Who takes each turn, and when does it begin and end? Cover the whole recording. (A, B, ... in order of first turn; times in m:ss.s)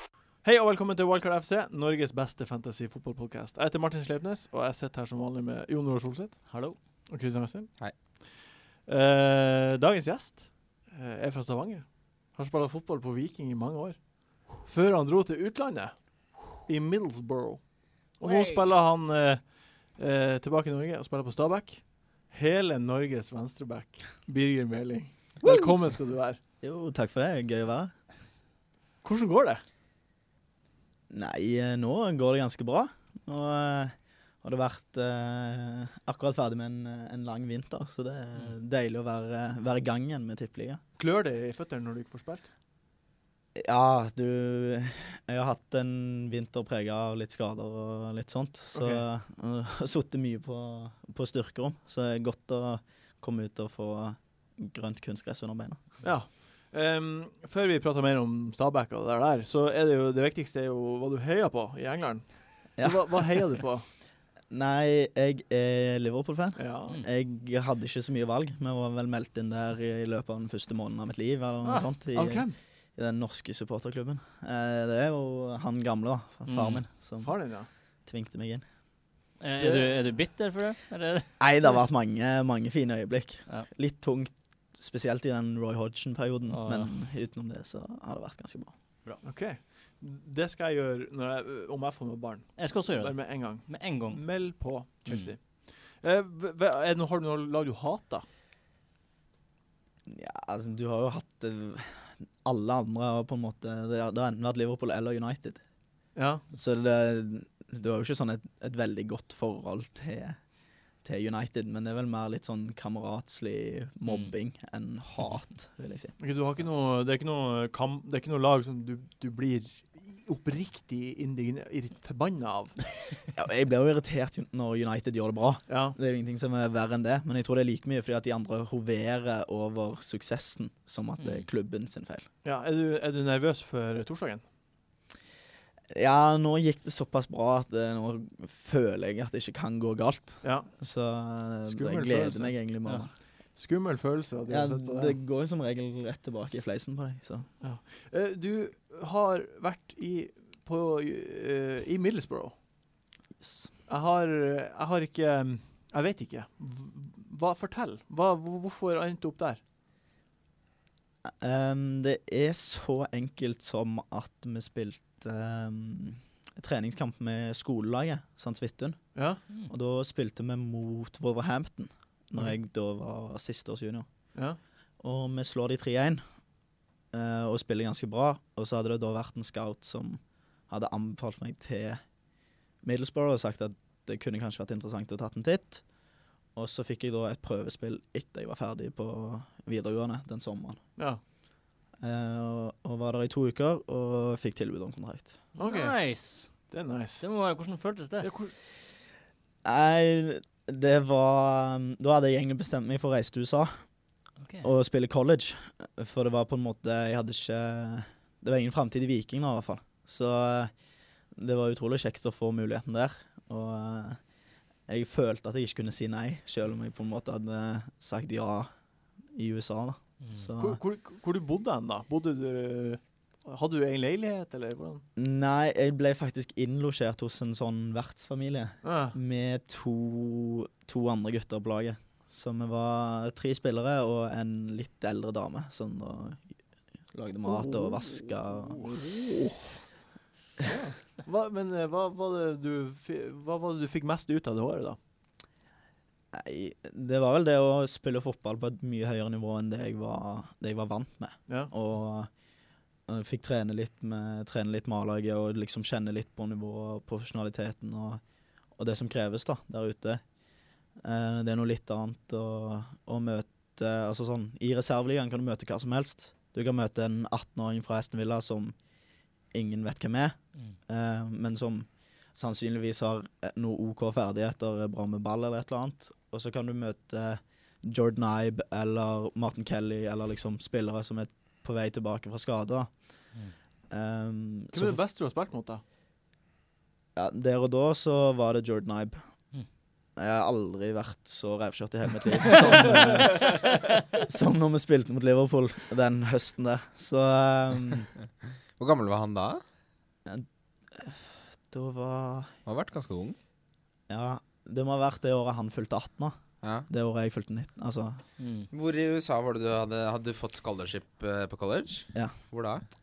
0:00.4-0:06.5 A
0:06.5-0:06.8 B
0:07.1-0:08.3 A
0:08.8-0:26.4 A
0:18.2-0:18.6 B
0:26.6-0:27.9 C
0:29.0-0:29.6 A
0:31.1-0:40.8 C
0:41.0-0:42.5 A
0:43.6-0:55.8 C
0:48.7-0:49.0 A
0:56.0-1:03.9 A
1:02.8-1:03.4 C
1:04.5-1:17.4 C
1:06.6-1:07.0 A
1:12.1-1:12.6 A
1:16.5-1:16.8 B
1:17.2-1:17.7 A
1:18.0-1:18.6 C
1:19.4-1:21.7 B
1:19.6-1:20.1 A
1:21.4-1:28.8 C
1:26.5-1:27.0 B
1:29.2-1:38.3 A
1:32.6-1:34.4 B
1:35.0-1:35.3 B
1:40.1-1:45.6 C
1:46.2-1:46.4 A
1:46.5-1:50.4 C
1:51.0-1:56.2 C
1:56.2-2:02.8 A
2:03.4-2:12.3 C
2:05.7-2:06.0 A
2:11.2-2:11.5 B
2:12.4-2:14.4 A
2:15.9-2:23.1 C
2:20.4-2:20.8 A
2:21.7-2:22.6 A
2:23.6-2:25.2 A
2:24.5-2:27.5 C
2:27.6-2:32.6 A
2:33.4-2:33.7 C
2:33.9-2:39.6 A
2:41.2-2:54.1 C
2:49.2-2:49.4 A
2:55.0-2:56.2 C
2:57.1-3:02.0 C
3:02.8-3:05.8 C
3:06.5-3:10.8 C
3:12.0-3:15.4 C
3:15.6-3:16.0 A
3:15.6-3:16.6 B
3:16.7-3:17.2 A
3:17.2-3:18.3 B
3:18.2-3:18.5 A
3:19.6-3:23.7 C
3:24.4-3:24.7 B
3:24.6-3:30.7 C
3:31.3-3:34.2 C
3:34.9-3:38.7 C
3:39.3-3:40.8 C
3:40.6-3:45.0 A
3:45.2-3:56.6 C
3:48.8-3:49.2 A
3:57.1-3:59.0 C
3:58.7-3:59.0 A
4:00.6-4:05.0 A
4:06.3-4:12.3 C
4:13.1-4:18.2 C
4:18.8-4:20.2 C
4:21.0-4:28.8 C
4:29.5-4:43.0 C
4:43.9-4:45.0 C
4:44.7-4:45.8 A
4:47.2-4:49.2 C
4:50.2-4:58.1 C
4:58.8-4:59.6 D
5:00.3-5:02.6 C
5:02.7-5:03.4 D
5:04.1-5:08.2 C
5:06.6-5:06.9 D
5:08.4-5:08.7 B
5:08.7-5:12.8 D